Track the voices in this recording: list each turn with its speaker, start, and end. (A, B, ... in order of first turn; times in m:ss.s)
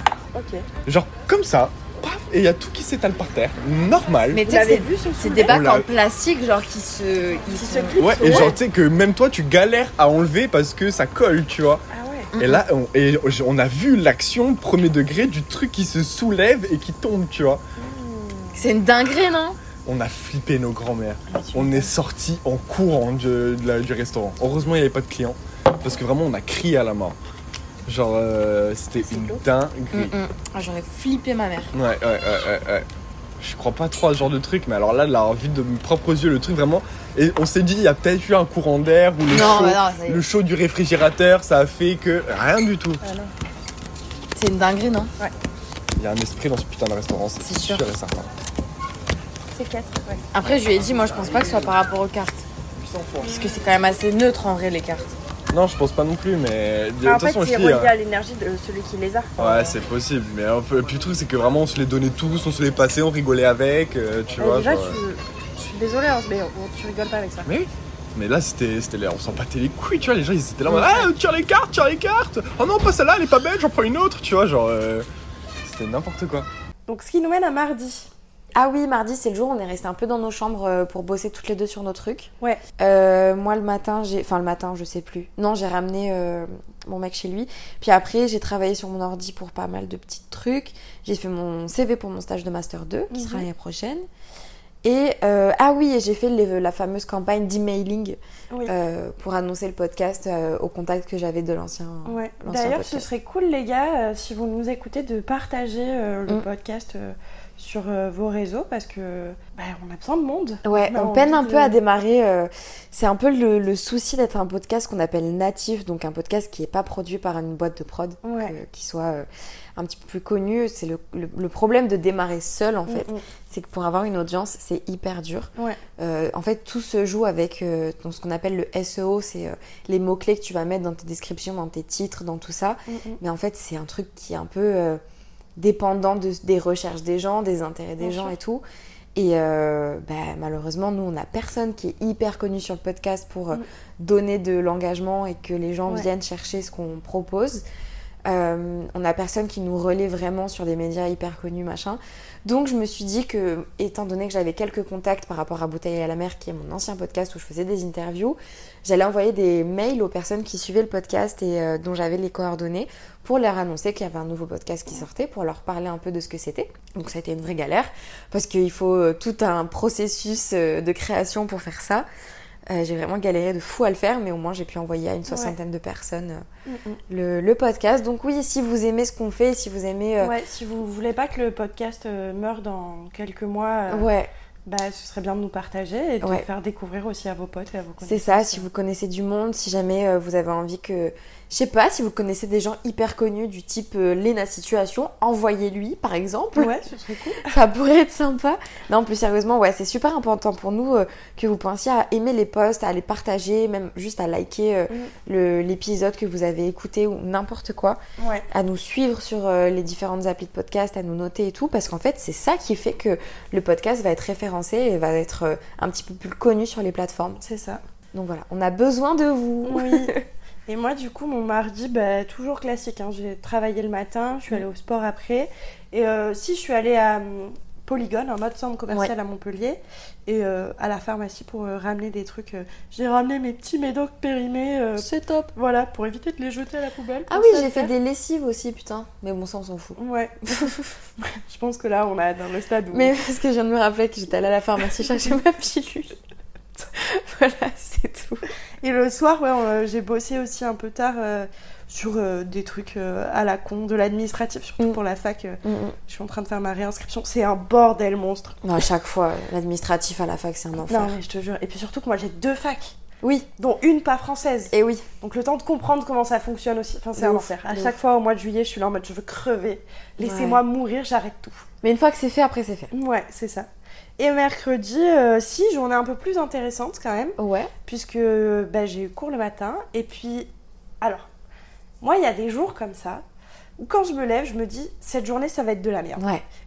0:00.3-0:00.7 A
0:00.9-0:04.4 B
0:04.3-0:08.6 C
0:04.4-0:05.6 A
0:05.5-0:05.9 B
0:07.5-0:08.6 A
0:08.0-0:11.8 B
0:11.9-0:12.3 A
0:12.4-0:17.6 B
0:17.8-0:18.7 A
0:18.6-0:19.6 C
0:19.8-0:27.2 B
0:21.3-0:21.9 A
0:27.9-0:30.2 B
0:29.1-0:29.4 A
0:29.9-0:31.7 D
0:31.7-0:32.9 B
0:33.4-0:43.0 B
0:39.3-0:40.2 D
0:43.0-0:43.3 A
0:44.4-0:45.1 D
0:46.0-0:48.3 B
0:49.5-0:50.2 A
0:50.3-0:52.4 D
0:52.8-0:53.3 B
0:53.2-0:53.5 A
0:53.2-0:55.1 D
0:55.5-0:57.9 B
0:57.0-0:59.8 A
0:59.4-1:05.0 B
1:04.4-1:07.5 A
1:07.4-1:15.1 B
1:15.6-1:16.5 B
1:16.9-1:18.1 A
1:18.6-1:34.1 C
1:33.1-1:33.5 A
1:34.8-1:43.1 C
1:42.0-1:51.8 A
1:50.6-2:15.0 C
1:58.2-1:58.6 A
2:02.9-2:03.2 A
2:12.9-2:13.2 A
2:15.6-2:18.6 C
2:18.0-2:18.4 A
2:19.2-2:27.6 C
2:28.3-2:52.1 C
2:52.7-2:56.4 C
2:55.3-2:55.6 A
2:56.7-2:57.0 A
2:57.1-3:00.3 C
3:00.2-3:04.1 A
3:03.9-3:04.3 C
3:04.7-3:08.7 A
3:08.0-3:16.8 C
3:16.6-3:17.5 A
3:17.4-3:28.0 C
3:28.2-3:28.5 A
3:28.5-3:37.4 C
3:37.4-3:37.8 A
3:38.1-3:40.2 C
3:39.6-3:40.2 A
3:40.7-3:57.9 A
3:55.0-3:55.5 D
3:57.3-4:00.9 C
4:00.0-4:03.2 A
4:02.9-4:06.2 C
4:06.8-4:08.5 C
4:08.8-4:18.6 A
4:15.6-4:16.0 C
4:18.6-4:21.2 C
4:20.9-4:23.0 A
4:23.2-4:23.5 C
4:23.6-4:31.7 A
4:24.7-4:25.0 C
4:27.2-4:28.0 C
4:30.2-4:30.6 C
4:31.8-4:32.9 C
4:32.9-4:40.5 A
4:37.4-4:37.7 C
4:41.0-4:41.3 A
4:42.0-4:43.2 A
4:43.8-4:46.2 A
4:46.2-4:46.4 C